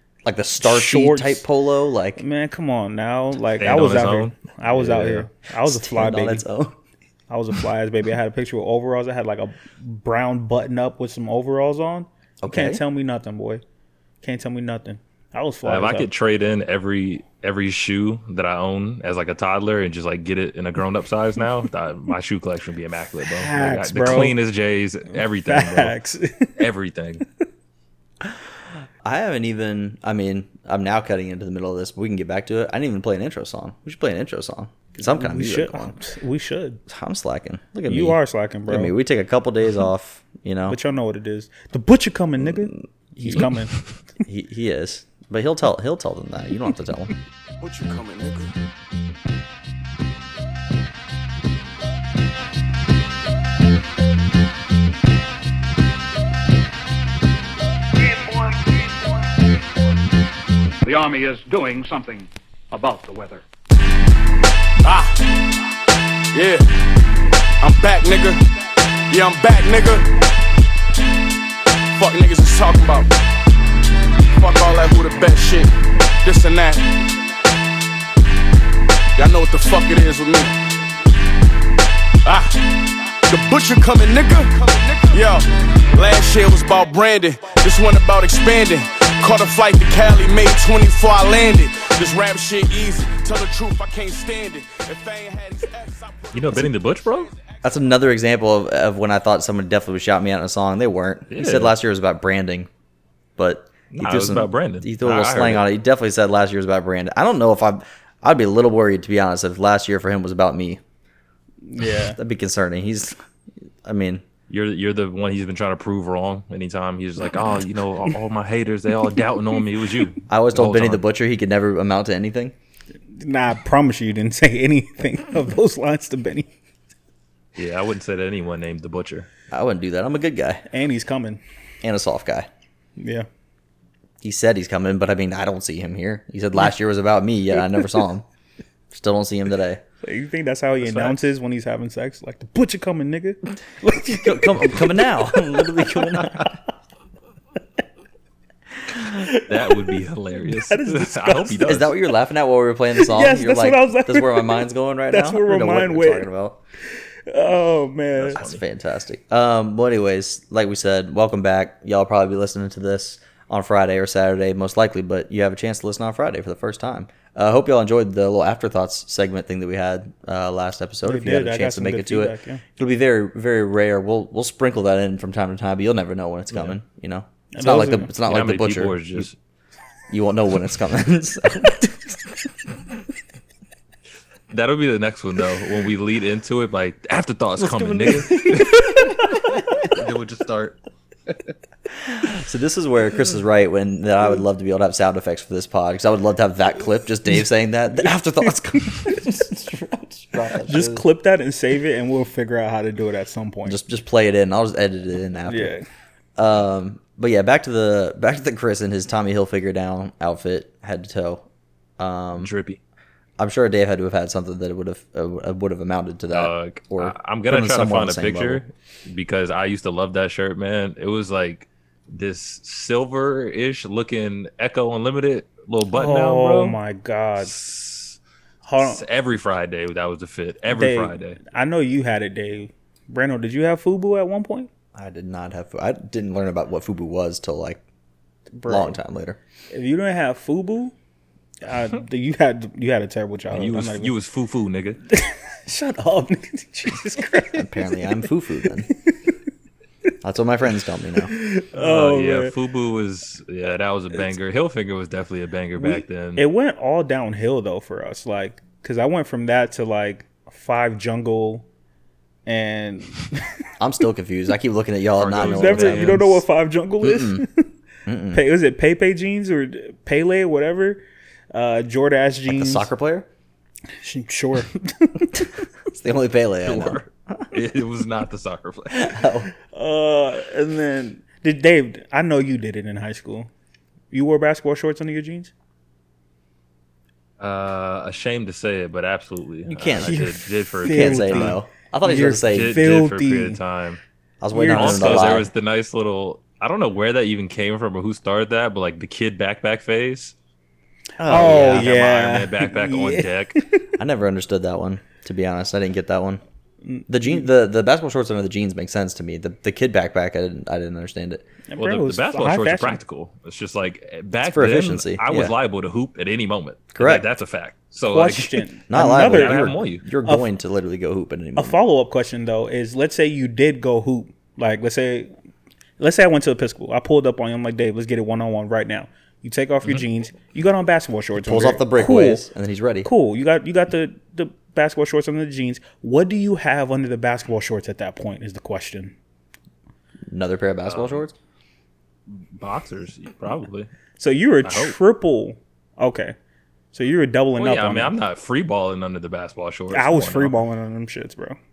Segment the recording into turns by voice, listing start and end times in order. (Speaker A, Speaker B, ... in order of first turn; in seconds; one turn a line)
Speaker A: 0.2-2.2
Speaker B: 0.6-1.4
Speaker B: 2.1-6.5
Speaker C: 3.6-5.3
Speaker A: 5.6-6.8
Speaker B: 7.3-13.6
Speaker A: 12.4-12.8
Speaker B: 14.2-16.1
Speaker C: 15.7-25.9
Speaker B: 23.3-24.4
Speaker B: 25.4-26.5
Speaker C: 26.6-27.2
Speaker A: 29.0-36.0
Speaker B: 35.0-36.8
Speaker A: 36.9-40.8
Speaker B: 37.9-38.9
Speaker B: 40.7-43.7
Speaker A: 42.4-43.6
Speaker A: 44.2-47.1
Speaker D: 47.6-48.6
Speaker D: 58.1-58.8
Speaker E: 60.8-63.4
Speaker D: 64.8-65.4
Speaker D: 66.3-66.7
Speaker D: 67.6-68.4
Speaker D: 69.1-70.1
Speaker D: 71.9-73.1
Speaker D: 74.2-77.0
Speaker D: 79.2-80.6
Speaker D: 82.2-97.7
Speaker C: 96.3-97.3
Speaker A: 97.6-102.7
Speaker C: 101.3-101.7
Speaker A: 103.4-110.8
Speaker C: 103.9-105.7
Speaker B: 111.7-112.2
Speaker A: 112.0-113.2
Speaker A: 113.8-114.2
Speaker C: 114.5-121.0
Speaker A: 120.3-122.5
Speaker B: 123.2-126.5
Speaker C: 127.5-129.3
Speaker A: 129.5-130.6
Speaker B: 130.7-131.4
Speaker A: 131.8-132.5
Speaker B: 133.0-133.3
Speaker A: 134.2-138.2
Speaker A: 138.9-139.8
Speaker B: 140.0-146.3
Speaker C: 140.8-141.2
Speaker A: 143.9-146.6
Speaker B: 148.9-151.8
Speaker C: 149.3-151.9
Speaker A: 151.6-156.6
Speaker B: 152.9-156.3
Speaker B: 157.3-158.4
Speaker C: 158.2-158.6
Speaker A: 158.3-179.3
Speaker B: 171.0-172.6
Speaker B: 177.5-178.1
Speaker C: 178.3-179.3
Speaker A: 180.1-181.9
Speaker C: 184.5-190.8
Speaker B: 187.6-188.6
Speaker A: 192.2-201.0
Speaker B: 198.1-199.2
Speaker B: 200.5-203.8
Speaker A: 203.7-205.8
Speaker B: 205.5-205.8
Speaker A: 206.4-211.4
Speaker A: 212.0-212.5
Speaker C: 212.4-212.8
Speaker A: 213.4-218.6
Speaker C: 216.3-226.8
Speaker B: 225.9-227.6
Speaker C: 227.4-228.2
Speaker B: 228.6-229.0
Speaker C: 228.8-231.4
Speaker B: 230.7-234.7
Speaker A: 234.9-237.8
Speaker B: 238.6-239.0
Speaker A: 238.6-239.4
Speaker B: 239.7-240.9
Speaker B: 241.6-244.1
Speaker C: 243.5-245.0
Speaker B: 245.1-247.9
Speaker A: 247.4-248.9
Speaker B: 248.9-249.3
Speaker A: 250.2-251.3
Speaker B: 251.2-252.5
Speaker C: 251.7-256.4
Speaker B: 255.8-261.6
Speaker B: 262.4-263.4
Speaker A: 263.8-266.2
Speaker C: 265.2-266.4
Speaker B: 265.3-267.7
Speaker A: 267.0-267.4
Speaker A: 268.1-268.4
Speaker B: 268.3-272.9
Speaker A: 272.5-273.3
Speaker B: 274.0-275.5
Speaker A: 275.9-277.4
Speaker C: 276.6-279.2
Speaker A: 278.9-279.5
Speaker B: 279.7-283.5
Speaker B: 284.1-285.5
Speaker C: 287.4-291.6
Speaker A: 289.6-290.3
Speaker B: 290.0-293.6
Speaker A: 290.9-292.8
Speaker C: 292.4-294.0
Speaker A: 294.4-295.5
Speaker B: 294.5-295.4
Speaker C: 294.7-300.3
Speaker A: 301.2-301.9
Speaker B: 301.2-303.8
Speaker C: 301.3-303.6
Speaker A: 304.0-306.4
Speaker B: 306.8-307.4
Speaker A: 307.1-311.4
Speaker B: 311.7-313.0
Speaker C: 311.8-320.0
Speaker A: 314.5-315.5
Speaker A: 316.9-317.2
Speaker B: 318.1-319.7
Speaker A: 318.9-321.8
Speaker B: 321.6-325.3
Speaker B: 326.0-332.5
Speaker A: 331.4-333.1
Speaker B: 333.0-339.1
Speaker A: 340.3-341.3
Speaker C: 340.9-341.2
Speaker C: 342.3-343.9
Speaker B: 344.2-346.4
Speaker C: 344.6-345.0
Speaker B: 346.9-348.1
Speaker C: 347.6-350.6
Speaker B: 349.9-351.6